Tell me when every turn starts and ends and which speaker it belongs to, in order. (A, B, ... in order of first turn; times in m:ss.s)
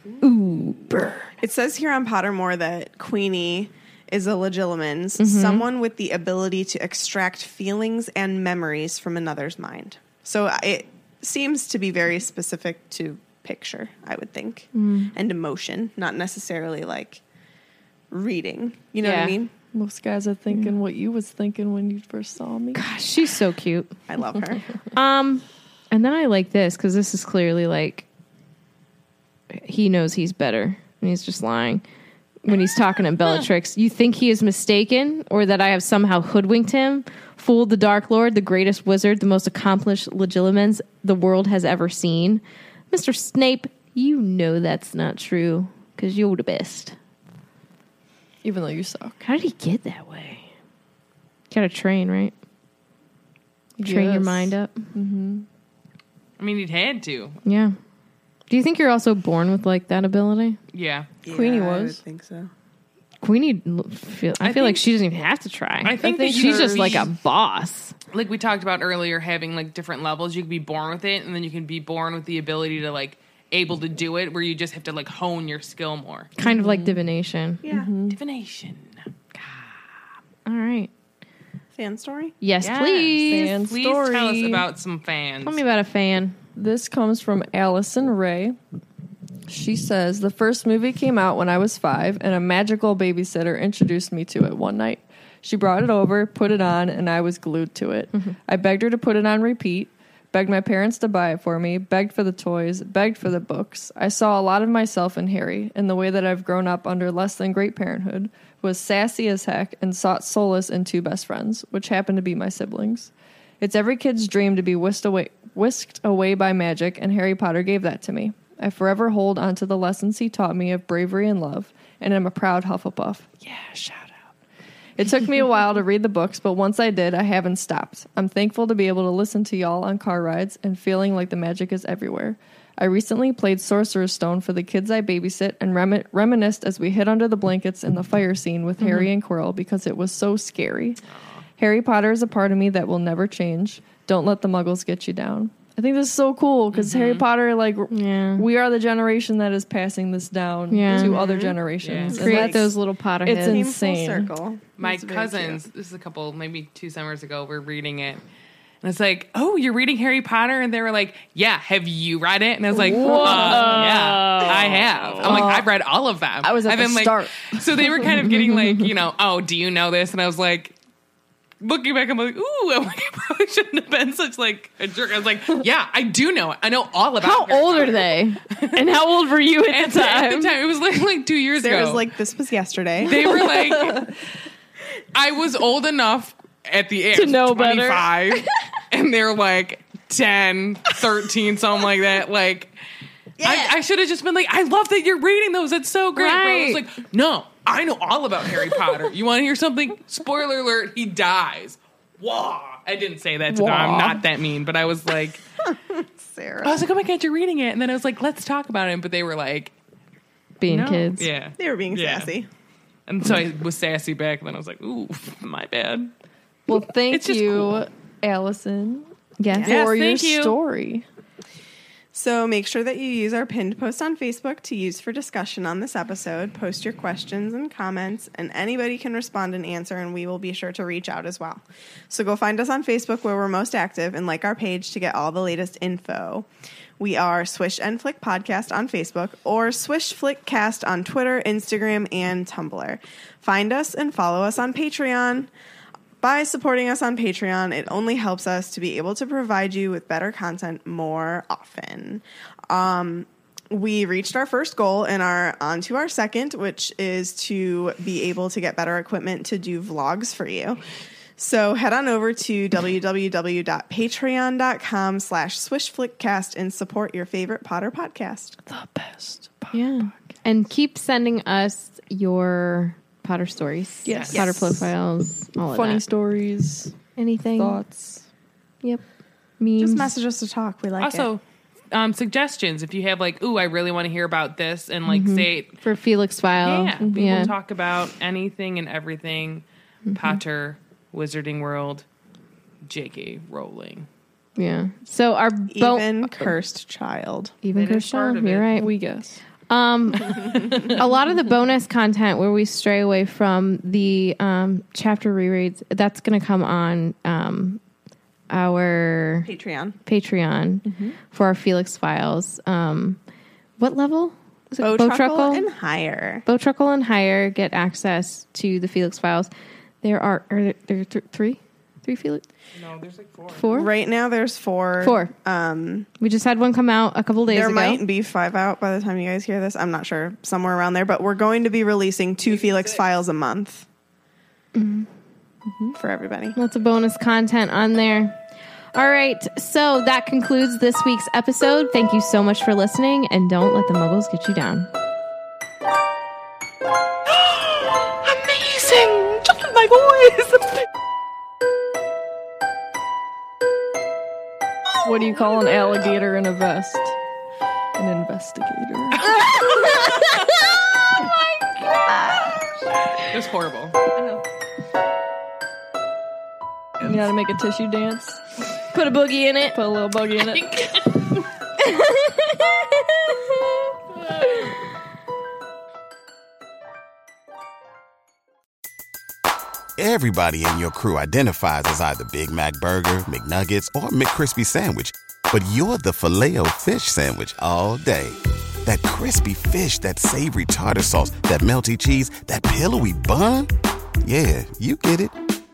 0:00.2-0:01.4 A
0:01.4-0:17.2 B
0:05.2-0:05.6 A
0:14.7-0:15.1 A
0:18.1-0:19.5 B
0:19.0-0:19.4 A
0:19.7-0:22.8 C
0:22.7-0:24.0 A
0:24.1-0:24.6 B
0:24.9-0:28.1 A
0:29.5-0:31.8 A
0:32.4-0:47.0 A
0:48.4-0:49.2 C
0:49.2-0:50.5 A
0:51.5-0:52.3 A
0:53.8-0:55.5 C
0:53.8-0:54.8 A
0:56.4-0:57.4 D
0:57.4-0:57.8 A
0:58.5-1:00.6 A
1:00.7-1:01.1 D
1:01.2-1:02.5 B
1:01.3-1:02.0 C
1:03.2-1:08.0 A
1:04.4-1:04.9 D
1:05.8-1:07.1 D
1:06.0-1:07.1 C
1:08.1-1:16.3 D
1:16.4-1:17.6 A
1:16.4-1:17.0 C
1:17.6-1:17.9 B
1:17.7-1:18.2 C
1:18.1-1:19.0 D
1:20.4-1:20.9 A
1:21.7-1:22.3 B
1:22.4-1:23.5 A
1:22.6-1:25.6 D
1:23.2-1:24.6 C
1:25.4-1:26.4 A
1:26.6-1:28.6 C
1:29.5-2:04.1 C
2:05.0-2:21.0 C
2:18.8-2:19.1 A
2:21.6-2:32.7 C
2:26.7-2:27.3 D
2:27.9-2:28.5 A
2:30.7-2:31.2 A
2:30.9-2:31.6 B
2:31.8-2:32.2 D
2:32.1-2:33.7 A
2:32.2-2:32.7 B
2:33.3-2:34.3 C
2:33.3-2:35.6 B
2:34.8-2:38.2 D
2:38.8-2:50.7 D
2:42.7-2:44.7 C
2:42.8-2:45.4 A
2:45.2-2:45.7 C
2:46.4-2:48.1 C
2:48.3-2:48.7 A
2:51.6-2:59.0 D
2:57.2-3:00.5 A
2:59.7-3:02.1 D
3:01.6-3:03.3 B
3:03.0-3:04.1 D
3:03.2-3:04.1 C
3:05.1-3:12.7 D
3:07.1-3:08.5 A
3:13.4-3:13.8 B
3:13.4-3:25.4 D
3:16.2-3:16.8 A
3:23.5-3:24.2 A
3:25.6-3:26.8 B
3:26.6-3:29.7 D
3:30.6-3:31.3 A
3:30.7-3:32.3 D
3:31.6-3:32.5 B
3:33.1-3:36.1 D
3:36.7-3:39.1 C
3:37.1-3:37.9 D
3:39.4-3:39.8 A
3:39.6-3:41.0 C
3:39.7-3:40.6 D
3:42.1-3:56.5 B
3:57.0-4:05.5 B
4:06.2-4:20.8 B
4:21.4-4:28.6 B
4:28.6-4:30.2 C
4:29.7-4:36.0 A
4:34.1-4:34.8 C
4:34.1-4:34.4 D
4:34.3-4:34.9 B
4:35.7-4:36.9 C
4:37.2-4:37.8 A
4:37.6-4:38.2 C
4:39.6-4:40.1 A
4:39.8-4:41.3 B
4:41.0-4:41.4 D
4:41.9-4:45.8 D
4:45.1-4:47.5 A
4:46.6-4:52.0 D
4:47.0-4:47.5 C
4:52.8-4:54.1 D
4:54.6-4:56.5 A
4:55.7-4:57.6 B
4:57.6-4:58.9 A
4:57.7-4:58.7 D
4:58.7-4:59.4 C
4:59.7-5:07.8 A
5:08.5-5:09.5 A
5:09.4-5:10.0 B
5:10.1-5:13.2 A
5:10.8-5:11.2 C
5:13.8-5:15.7 A
5:14.8-5:16.4 B
5:16.5-5:19.5 A
5:20.0-5:22.4 A
5:22.8-5:23.7 D
5:23.5-5:23.9 A
5:23.7-5:26.1 B
5:25.0-5:25.3 A
5:26.2-5:28.0 A
5:27.5-5:33.9 B
5:32.5-5:33.0 D
5:34.8-5:35.1 A
5:35.7-5:36.0 C
5:35.9-5:36.6 B
5:36.6-5:38.4 A
5:38.9-5:44.9 A
5:48.2-5:50.6 D
5:55.0-5:57.2 C
5:58.0-5:59.4 C
5:59.6-6:00.5 A
6:01.9-6:02.6 A
6:03.2-6:04.0 D
6:07.0-6:08.4 C
6:08.9-6:09.8 A
6:09.7-6:10.8 C
6:10.5-6:10.8 D
6:11.8-6:13.5 A
6:20.0-6:33.7 E
6:34.2-6:35.3 E